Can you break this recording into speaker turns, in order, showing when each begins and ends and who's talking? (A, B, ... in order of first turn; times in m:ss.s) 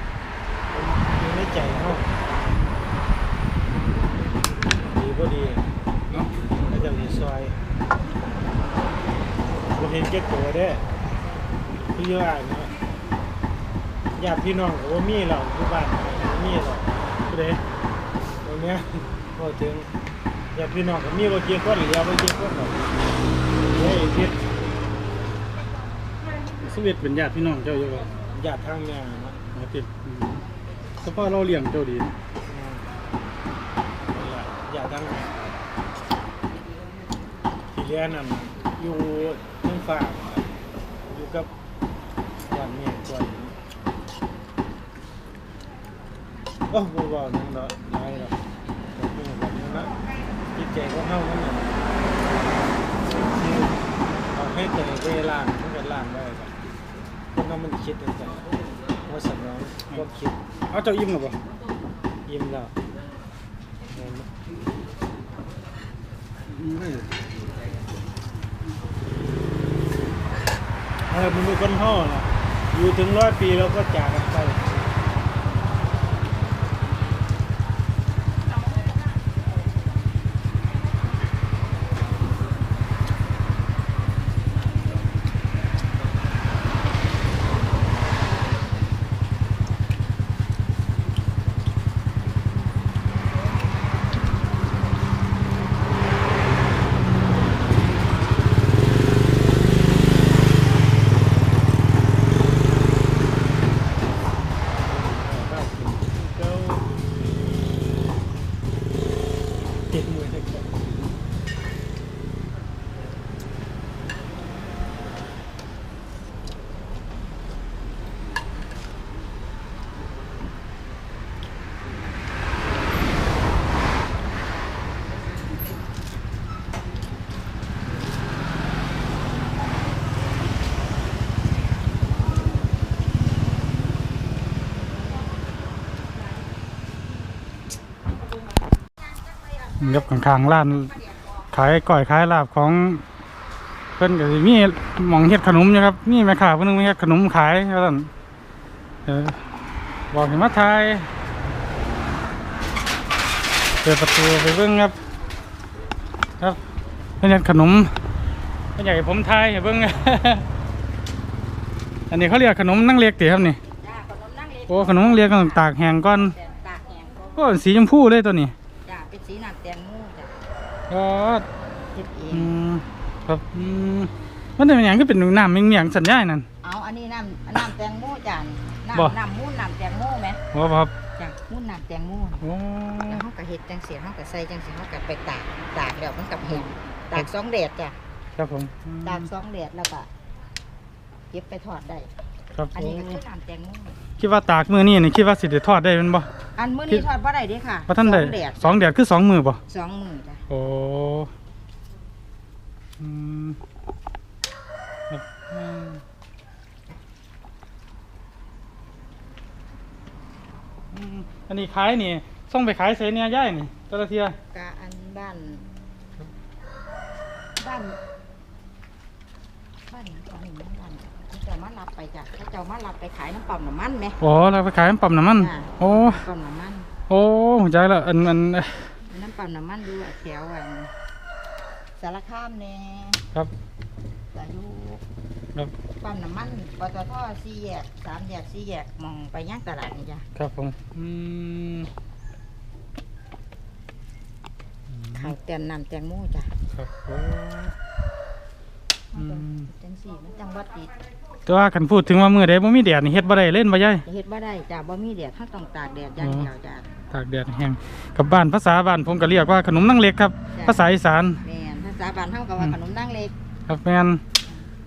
0:00.8-0:02.1 A
0:04.9-0:05.7 A
0:06.6-0:07.6 A
0:09.7-0:10.8 A
0:11.8-0:12.7 A
0:14.2-0:16.9 A
0:17.3-0:17.6 B
0:18.4-0:19.9 A
0:20.5-0:22.8 A
0:23.6-0:24.4 A
0:26.6-0:28.1 B
0:28.3-0:29.4 A
0:29.5-0:30.4 B
0:31.0-0:32.2 B
0:32.4-0:32.9 A
0:34.1-0:35.4 A
0:37.7-0:40.5 A
0:41.1-0:41.5 A
0:42.5-0:43.5 A
0:46.7-0:48.4 A
0:48.9-0:50.0 A
0:50.5-0:51.7 A
0:52.3-0:53.8 A
0:54.3-0:56.5 A
0:57.3-0:58.4 A
0:59.0-1:00.4 A
1:00.7-1:01.4 B
1:02.2-1:02.7 A
1:03.9-1:04.3 A
1:06.5-1:07.1 B
1:11.1-1:14.9 A
1:44.8-1:46.8 A
1:49.9-1:51.1 A
2:19.0-2:21.3 C
2:19.8-2:20.9 B
2:21.5-2:23.0 B
2:24.0-2:28.1 B
2:29.0-2:29.4 B
2:30.1-2:31.1 B
2:33.8-2:34.9 B
2:37.2-2:37.9 B
2:38.8-2:40.4 B
2:42.1-2:43.6 B
2:43.7-2:47.4 C
2:44.7-2:46.3 B
2:47.4-2:48.5 B
2:48.8-2:50.4 C
2:50.9-2:51.4 B
2:51.9-2:52.5 C
2:52.3-2:56.5 B
2:56.6-3:00.4 C
3:00.5-3:00.9 B
3:01.2-3:02.4 C
3:02.4-3:03.2 B
3:03.0-3:07.9 C
3:08.4-3:09.3 B
3:09.0-3:10.1 C
3:11.3-3:12.1 C
3:12.6-3:13.2 B
3:12.7-3:14.0 C
3:14.2-3:16.3 B
3:16.6-3:18.8 C
3:17.9-3:19.6 B
3:19.7-3:20.4 C
3:20.5-3:21.3 B
3:23.0-3:23.6 B
3:25.1-3:26.0 B
3:30.9-3:34.3 B
3:34.5-3:35.6 C
3:37.6-3:38.0 C
3:39.9-3:44.2 C
3:44.2-3:46.2 B
3:45.3-3:46.9 C
3:47.1-3:48.8 B
3:49.1-3:50.9 C
3:52.0-3:53.2 C
3:54.3-3:55.0 C
3:56.0-4:00.2 C
4:00.4-4:01.9 B
4:05.0-4:05.3 B
4:05.1-4:06.5 C
4:06.7-4:07.7 B
4:09.1-4:10.9 C
4:09.2-4:09.6 B
4:11.4-4:14.0 B
4:14.0-4:16.9 C
4:16.2-4:16.5 B
4:17.1-4:21.4 B
4:20.5-4:20.8 C
4:21.4-4:23.3 C
4:23.7-4:24.2 B